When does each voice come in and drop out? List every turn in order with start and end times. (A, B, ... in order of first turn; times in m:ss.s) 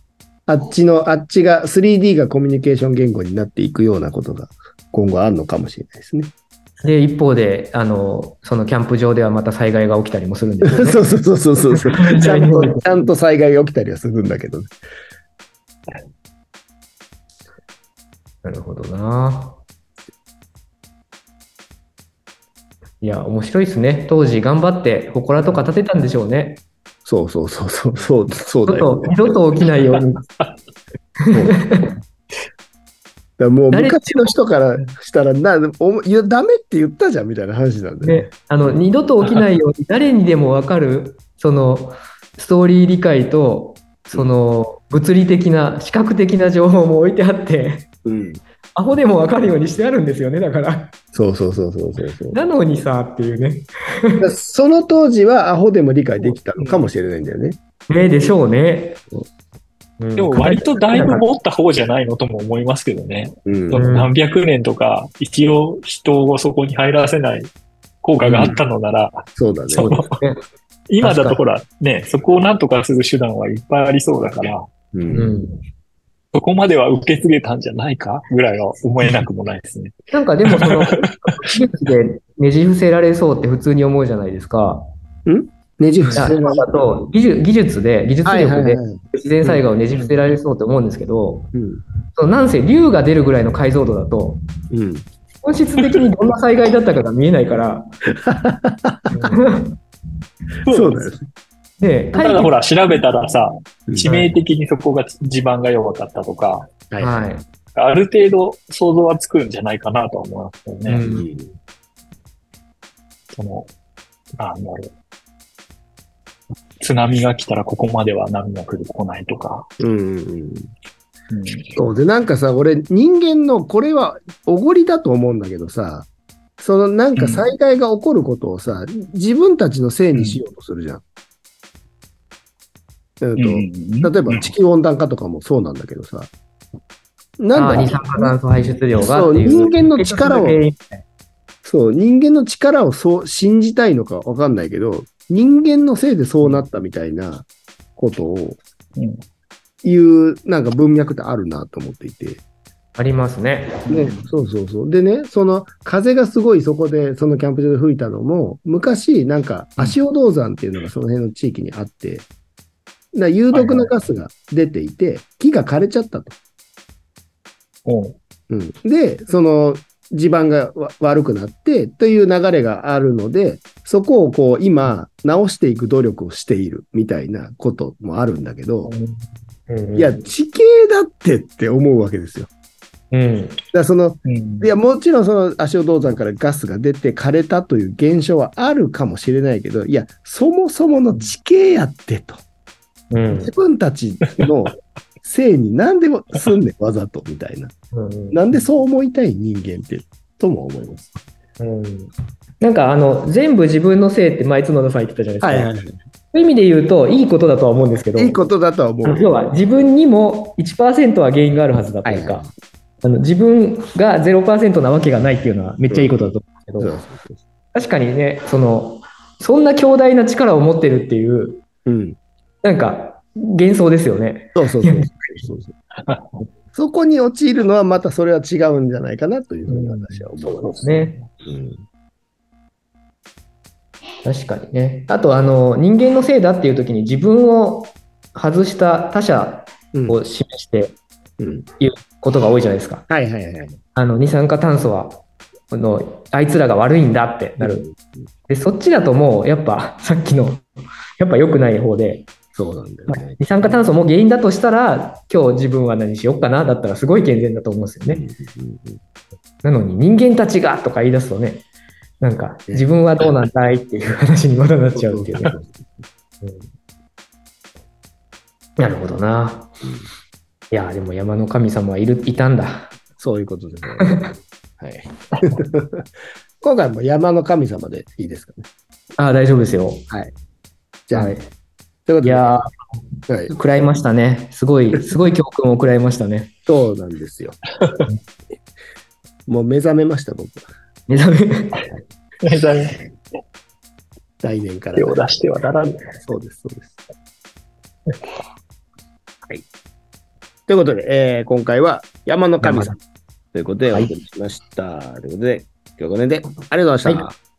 0:00.5-0:06.3 A
0:06.8-0:11.0 B
0:10.6-0:14.7 A
0:11.8-0:12.9 B
0:18.4-0:19.6 B
0:23.0-0:26.6 B
0:27.0-0:29.1 A
0:28.6-0:30.2 B
0:31.2-0:31.9 B
0:31.3-0:31.6 A
0:33.4-0:38.3 A
0:33.7-0:34.2 B
0:38.0-0:47.9 B
0:48.0-0:48.4 A
0:48.8-0:50.9 B
0:51.1-0:52.4 A
0:52.3-0:54.3 B
0:54.2-0:57.6 A
0:57.9-0:59.0 B
1:00.0-1:01.2 B
1:00.2-1:10.1 C
1:00.5-1:01.1 A
1:03.5-1:03.9 A
1:03.7-1:04.1 B
1:08.2-1:08.6 B
1:08.3-1:08.6 A
1:09.4-1:10.0 A
1:09.8-1:10.4 B
1:10.9-1:14.7 C
1:11.0-1:11.4 B
1:14.9-1:15.4 A
1:15.1-1:15.6 B
1:16.3-1:20.0 C
1:20.1-1:24.9 B
1:20.5-1:20.9 C
1:25.3-1:26.6 A
1:26.0-1:26.3 C
1:26.2-1:31.5 B
1:28.2-1:29.0 A
1:29.9-1:30.3 C
1:31.5-1:31.8 A
1:32.2-1:34.4 B
1:34.7-1:35.1 A
1:35.4-1:37.9 B
1:38.2-1:39.2 A
1:39.1-1:39.8 B
1:40.6-1:41.0 C
1:40.7-1:41.2 A
1:41.8-1:42.5 B
1:42.1-1:46.7 C
1:44.0-1:44.4 B
1:46.9-1:47.3 A
1:47.0-1:47.4 B
1:47.8-1:51.0 C
1:50.9-1:51.3 B
1:51.0-1:51.6 A
1:53.3-1:53.7 C
1:54.4-1:54.9 C
1:56.8-1:59.7 C
1:59.8-2:00.7 A
2:01.3-2:01.8 C
2:01.8-2:06.1 A
2:06.6-2:11.0 A
2:07.2-2:07.5 C
2:10.1-2:10.4 C
2:13.2-2:16.3 A
2:13.4-2:14.5 C
2:17.4-2:18.3 A
2:17.5-2:21.0 B
2:18.9-2:20.6 A
2:21.6-2:28.6 A
2:29.0-2:29.2 C
2:29.8-2:32.4 A
2:33.0-2:34.0 B
2:33.9-2:42.3 A
2:33.9-2:34.2 C
2:43.1-2:46.4 A
2:43.5-2:43.9 C
2:47.9-2:48.2 C
2:48.5-2:58.9 A
2:58.9-2:59.2 C
2:59.7-3:00.2 B
3:00.0-3:02.5 A
3:03.1-3:03.6 B
3:03.7-3:12.4 A
3:04.3-3:04.7 C
3:13.1-3:13.5 B
3:13.4-3:17.7 A
3:17.9-3:18.4 B
3:18.3-3:21.1 A
3:21.6-3:25.7 B
3:25.4-3:26.0 A
3:26.3-3:28.4 B
3:28.2-3:29.3 A
3:29.0-3:32.5 B
3:32.0-3:32.5 A
3:33.0-3:36.9 B
3:35.9-3:37.4 A
3:37.7-3:41.6 B
3:41.9-3:42.2 A
3:42.6-3:45.4 B
3:44.6-3:45.7 A
3:46.1-3:46.3 C
3:46.7-3:50.8 A
3:49.7-3:51.1 C
3:50.8-3:51.2 B
3:51.4-3:51.8 A
3:54.2-4:01.0 B
3:59.9-4:00.2 A
4:01.4-4:01.7 A
4:01.8-4:03.0 B
4:03.1-4:03.8 A
4:04.0-4:07.9 B
4:07.6-4:08.3 A
4:08.5-4:10.6 B
4:11.2-4:12.3 B
4:12.5-4:13.8 A
4:13.1-4:18.2 B
4:18.1-4:19.0 A
4:19.6-4:21.6 B
4:22.2-4:25.6 B
4:24.9-4:25.8 A
4:28.8-4:29.7 B
4:30.7-4:32.9 B
4:33.2-4:36.1 A
4:34.0-4:34.3 B
4:36.6-4:38.7 A
4:39.2-4:40.1 B
4:41.1-4:41.4 A
4:41.1-4:41.5 B
4:42.1-4:42.5 A
4:42.2-4:42.8 B
4:43.3-4:43.6 A
4:43.5-4:46.5 B
4:46.7-4:47.6 A
4:49.5-4:50.7 A
4:51.1-4:51.9 B
4:52.4-4:53.0 C
4:54.4-4:55.4 A
4:55.0-4:56.1 C
4:56.1-4:57.0 A
5:00.7-5:03.0 A
5:02.6-5:03.0 B
5:03.5-5:07.4 A